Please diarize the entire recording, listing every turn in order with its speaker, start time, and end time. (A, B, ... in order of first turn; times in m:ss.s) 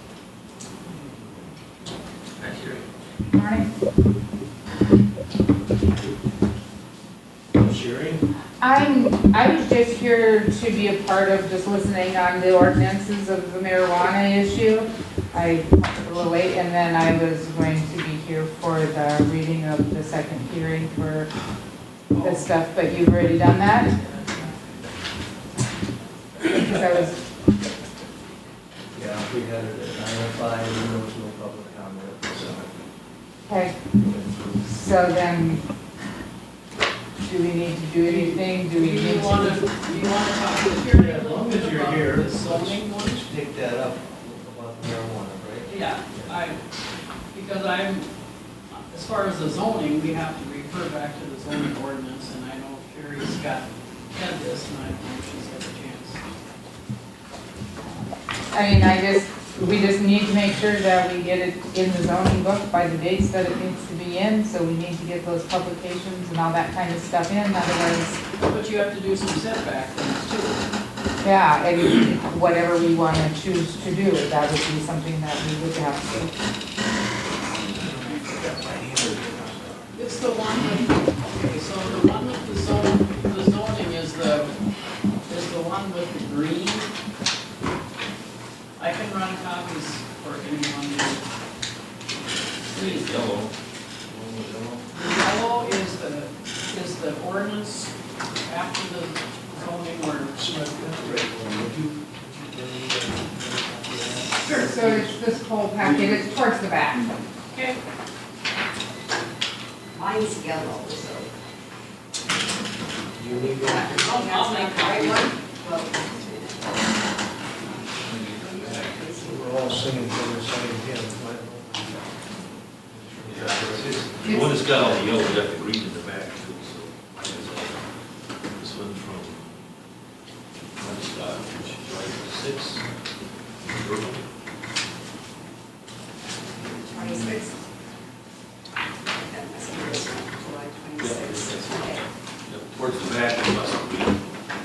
0:02.4-0:02.8 A
0:03.3-0:03.7 B
0:07.6-0:08.2 C
0:08.6-0:21.3 B
0:22.1-0:22.5 D
0:22.2-0:24.0 B
0:24.0-0:24.6 D
0:26.4-0:27.2 B
0:28.9-0:32.8 C
0:33.5-0:33.8 B
0:34.0-0:34.7 C
0:34.6-0:35.6 B
0:37.2-0:39.7 B
0:38.0-0:43.2 D
0:40.9-0:46.4 C
0:45.6-0:46.6 D
0:47.3-0:48.1 D
0:48.7-0:56.2 D
0:57.8-1:08.2 B
1:08.4-1:10.6 D
1:11.2-1:16.3 B
1:17.7-1:19.7 C
1:19.9-1:24.5 D
1:25.2-1:26.9 D
1:28.8-1:31.2 D
1:32.7-1:33.5 A
1:32.7-1:33.0 D
1:34.1-1:34.8 A
1:34.9-1:40.5 D
1:40.8-1:45.1 C
1:44.4-1:47.2 B
1:47.5-1:47.8 D
1:49.9-1:51.3 E
1:53.2-1:54.0 C
1:53.6-1:57.0 E
1:53.9-1:55.4 D
1:57.6-1:59.8 E
1:58.0-1:59.2 A
1:59.2-2:02.2 C
2:02.9-2:04.1 C
2:03.2-2:07.8 A
2:04.2-2:04.7 B
2:08.6-2:09.5 A
2:10.8-2:12.8 A
2:13.7-2:14.2 A
2:16.5-2:17.6 E
2:19.0-2:22.1 E
2:21.0-2:21.8 A
2:22.4-2:24.2 A